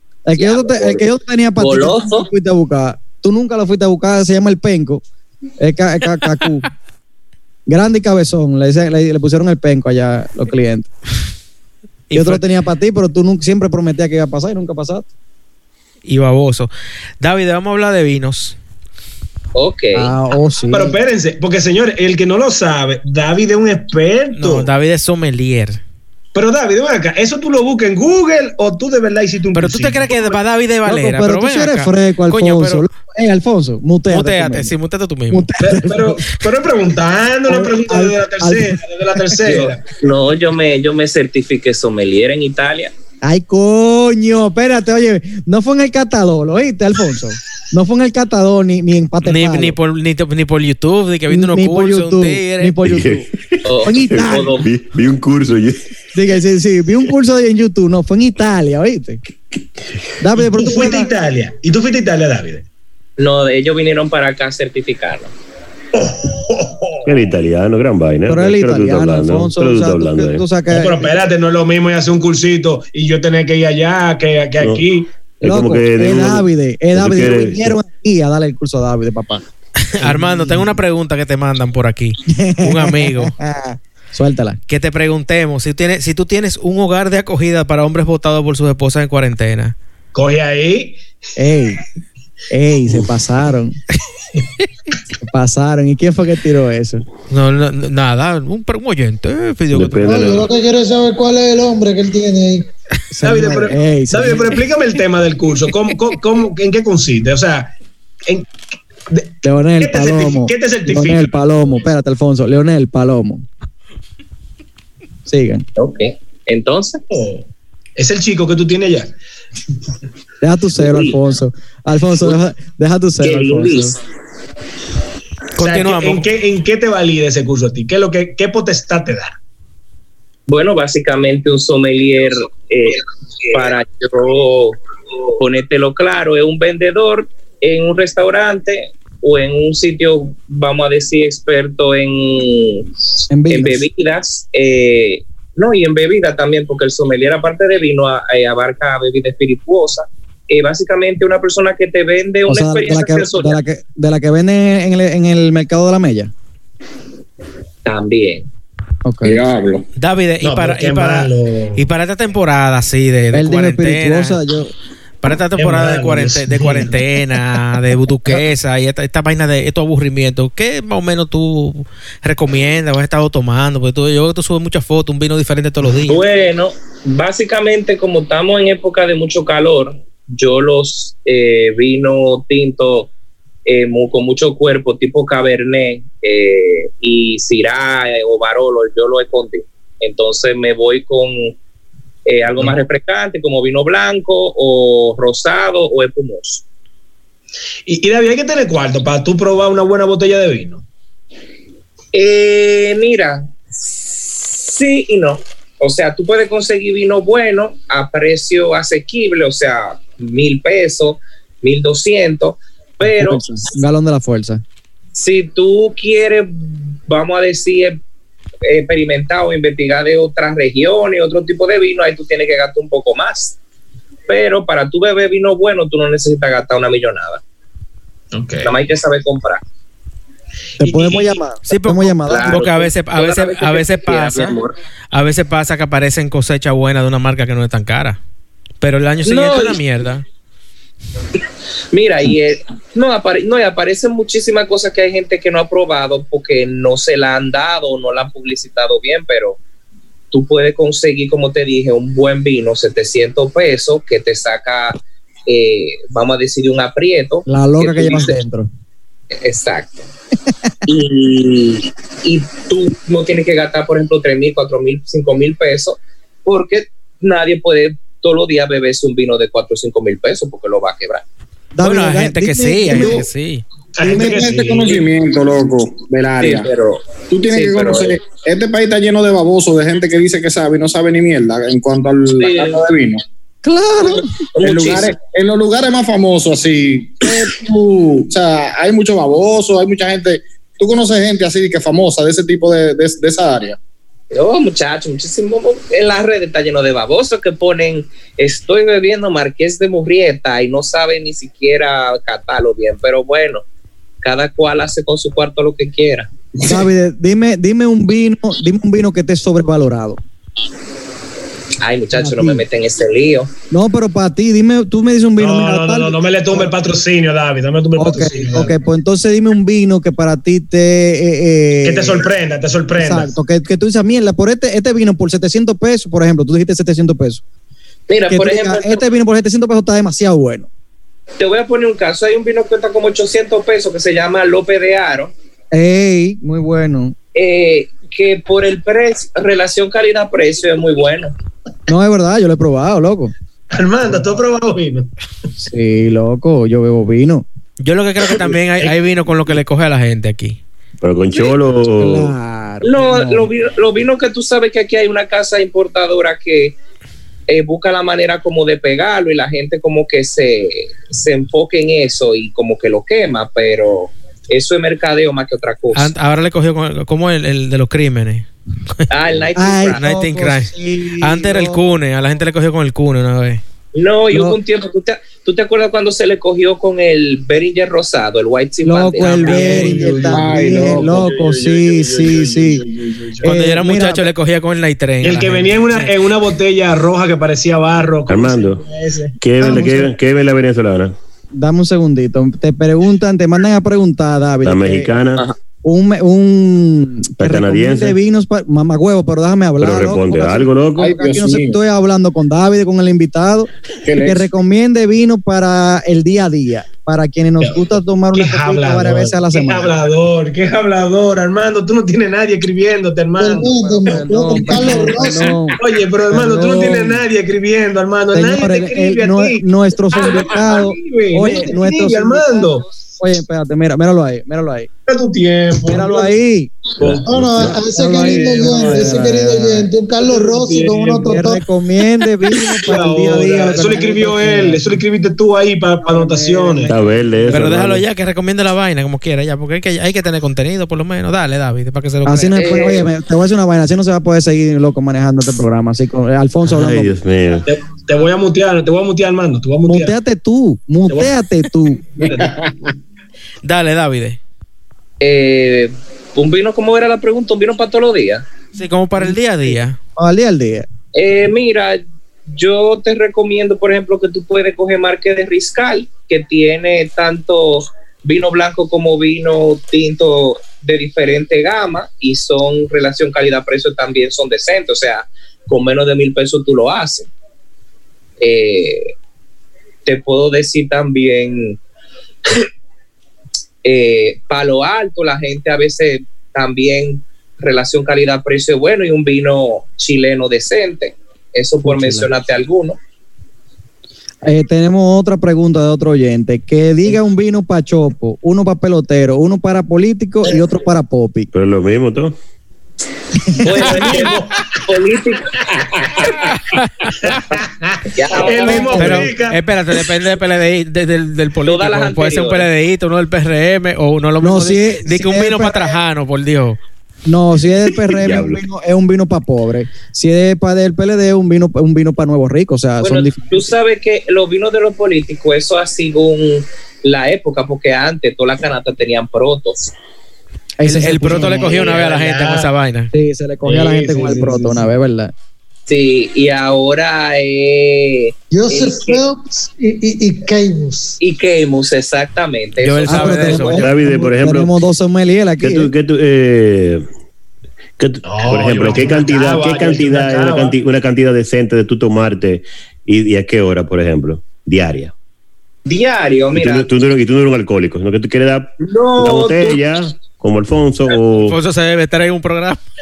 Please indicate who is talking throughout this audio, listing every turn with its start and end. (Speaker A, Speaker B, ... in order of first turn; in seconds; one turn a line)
Speaker A: 0.3-5.0
Speaker B: 0.4-1.0
Speaker B: 1.6-2.3
Speaker A: 5.6-6.7
Speaker A: 7.7-10.9
Speaker C: 12.1-12.4
Speaker A: 12.1-15.1
Speaker C: 16.1-18.6
Speaker B: 19.6-20.1
Speaker A: 19.9-21.0
Speaker D: 20.7-24.7
Speaker C: 24.4-25.8
Speaker D: 26.3-30.3
Speaker C: 29.5-32.9
Speaker A: 30.9-34.7
Speaker C: 34.1-35.5
Speaker A: 35.3-36.2
Speaker D: 35.6-39.9
Speaker A: 37.5-39.5
Speaker B: 39.5-42.9
Speaker A: 43.2-49.8
Speaker C: 49.2-52.8
Speaker A: 51.3-53.3
Speaker E: 52.9-55.8
Speaker B: 53.7-54.7
Speaker A: 53.8-54.6
Speaker A: 56.1-59.2
Speaker A: 60.2-61.1
Speaker D: 60.4-62.7
Speaker B: 63.2-65.3
Speaker D: 65.9-67.1
Speaker E: 67.0-70.4
Speaker A: 68.3-71.2
Speaker D: 70.7-75.1
Speaker E: 74.6-74.8
Speaker E: 75.4-77.8
Speaker A: 75.4-79.5
Speaker C: 79.9-83.3
Speaker A: 80.0-80.8
Speaker A: 82.3-84.6
Speaker C: 84.7-89.8
Speaker D: 90.1-91.0
Speaker A: 91.4-91.8
Speaker A: 92.5-93.8
Speaker A: 95.2-97.0
Speaker C: 97.3-100.4
Speaker E: 99.7-100.5
Speaker F: 100.1-102.7
Speaker A: 103.1-104.6
Speaker D: 103.2-107.7
Speaker D: 109.1-111.4
Speaker A: 109.4-113.5
Speaker A: 115.3-115.7
Speaker B: 115.8-117.0
Speaker D: 117.1-119.1
Speaker A: 120.4-124.0
Speaker B: 120.8-121.2
Speaker B: 123.2-124.0
Speaker C: 125.6-126.2
Speaker D: 125.6-129.3
Speaker B: 130.5-134.8
Speaker B: 135.3-153.6
Speaker A: 143.3-143.8
Speaker A: 152.5-156.3
Speaker B: 157.8-158.5
Speaker A: 159.1-159.4
Speaker G: 159.2-159.9
Speaker C: 160.0-164.4
Speaker D: 160.4-161.8
Speaker A: 163.3-164.7
Speaker C: 165.2-176.2
Speaker D: 165.6-167.0
Speaker B: 176.1-183.1
Speaker B: 183.7-191.6
Speaker B: 192.3-196.6
Speaker D: 197.9-200.8
Speaker B: 202.1-213.4
Speaker A: 213.0-214.6
Speaker B: 215.2-218.0
Speaker B: 218.6-223.6
Speaker B: 224.3-227.4
Speaker D: 228.3-228.8
Speaker B: 228.6-229.6
Speaker A: 230.8-232.6
Speaker D: 230.8-231.1
Speaker C: 231.7-234.6
Speaker B: 232.3-234.8
Speaker C: 235.1-238.2
Speaker C: 238.8-240.2
Speaker B: 239.2-239.8
Speaker B: 241.9-249.6
Speaker B: 250.3-258.4
Speaker A: 257.5-258.7
Speaker B: 259.3-260.1
Speaker B: 260.9-271.2
Speaker A: 271.8-273.3
Speaker C: 271.8-273.6
Speaker G: 272.9-273.2
Speaker D: 274.0-275.1
Speaker G: 274.0-276.7
Speaker B: 276.4-278.2
Speaker G: 277.2-283.2
Speaker B: 282.3-282.8
Speaker A: 283.6-284.4
Speaker B: 284.6-285.1
Speaker G: 284.6-293.8
Speaker B: 294.3-303.6
Speaker B: 304.2-306.3
Speaker A: 306.6-310.2
Speaker B: 311.8-313.5
Speaker A: 312.1-312.6
Speaker A: 313.7-316.7
Speaker D: 315.4-318.7
Speaker A: 318.0-322.3
Speaker D: 321.8-323.3
Speaker A: 322.9-327.4
Speaker B: 328.1-329.0
Speaker A: 328.3-330.7
Speaker B: 331.4-335.3
Speaker A: 335.7-337.2
Speaker B: 337.4-341.3
Speaker A: 341.9-343.3
Speaker D: 343.7-345.1
Speaker A: 345.6-347.4
Speaker C: 347.8-350.6
Speaker D: 348.4-348.9
Speaker E: 351.0-352.3
Speaker A: 352.0-353.5
Speaker B: 352.8-356.8
Speaker B: 357.5-366.1
Speaker C: 365.9-368.5
Speaker B: 369.1-370.1
Speaker A: 369.6-371.9
Speaker C: 370.0-373.6
Speaker B: 373.9-379.8
Speaker A: 374.3-374.6
Speaker A: 378.8-382.9
Speaker C: 379.2-380.0
Speaker D: 379.4-383.5
Speaker G: 380.0-382.7
Speaker A: 383.4-384.3
Speaker C: 383.4-386.1
Speaker D: 385.2-390.1
Speaker E: 388.3-388.8
Speaker E: 389.4-391.1
Speaker A: 391.5-395.1
Speaker E: 394.6-395.4
Speaker A: 395.8-410.0
Speaker E: 397.4-398.2
Speaker E: 399.8-401.1
Speaker G: 401.0-401.8
Speaker G: 404.1-404.5
Speaker D: 407.6-415.2
Speaker F: 413.4-415.6
Speaker A: 413.5-417.2
Speaker D: 415.8-422.9
Speaker A: 418.3-424.9
Speaker D: 425.1-426.3
Speaker A: 425.9-426.8
Speaker E: 427.0-427.8
Speaker F: 427.2-431.6
Speaker A: 427.7-429.9
Speaker D: 428.2-429.2
Speaker D: 430.2-431.5
Speaker A: 431.2-435.0
Speaker D: 432.5-436.9
Speaker A: 436.0-437.9
Speaker E: 436.9-438.0
Speaker C: 437.5-442.6
Speaker A: 442.2-447.1
Speaker B: 442.6-443.1
Speaker E: 446.6-447.7
Speaker D: 447.6-450.1
Speaker A: 449.9-452.4
Speaker D: 452.2-452.5
Speaker C: 453.6-454.4
Speaker B: 455.2-458.5
Speaker C: 458.8-460.0
Speaker A: 460.2-460.9
Speaker B: 461.1-477.3
Speaker B: 478.4-479.1
Speaker B: 480.1-481.8
Speaker B: 483.8-493.0
Speaker A: 491.8-492.3
Speaker A: 494.4-501.5
Speaker E: 501.5-502.4
Speaker B: 503.6-506.3
Speaker D: 503.7-504.8
Speaker C: 506.7-507.3
Speaker D: 507.2-509.6
Speaker B: 508.1-509.2
Speaker A: 508.6-509.4
Speaker C: 508.9-516.8
Speaker B: 511.6-512.7
Speaker A: 514.4-516.0
Speaker A: 517.3-523.7
Speaker E: 518.2-518.6
Speaker B: 523.0-529.9
Speaker A: 530.8-531.8
Speaker C: 530.8-533.1
Speaker D: 531.8-532.7
Speaker A: 533.1-535.3
Speaker D: 533.6-534.9
Speaker B: 535.9-539.2
Speaker F: 538.5-541.2
Speaker B: 541.2-543.9
Speaker C: 542.8-543.9
Speaker A: 543.1-545.9
Speaker E: 543.6-544.8
Speaker E: 545.6-547.1
Speaker E: 548.0-555.1
Speaker D: 548.2-550.8
Speaker B: 555.9-556.9
Speaker E: 556.5-561.6
Speaker B: 558.8-559.8
Speaker C: 561.5-562.8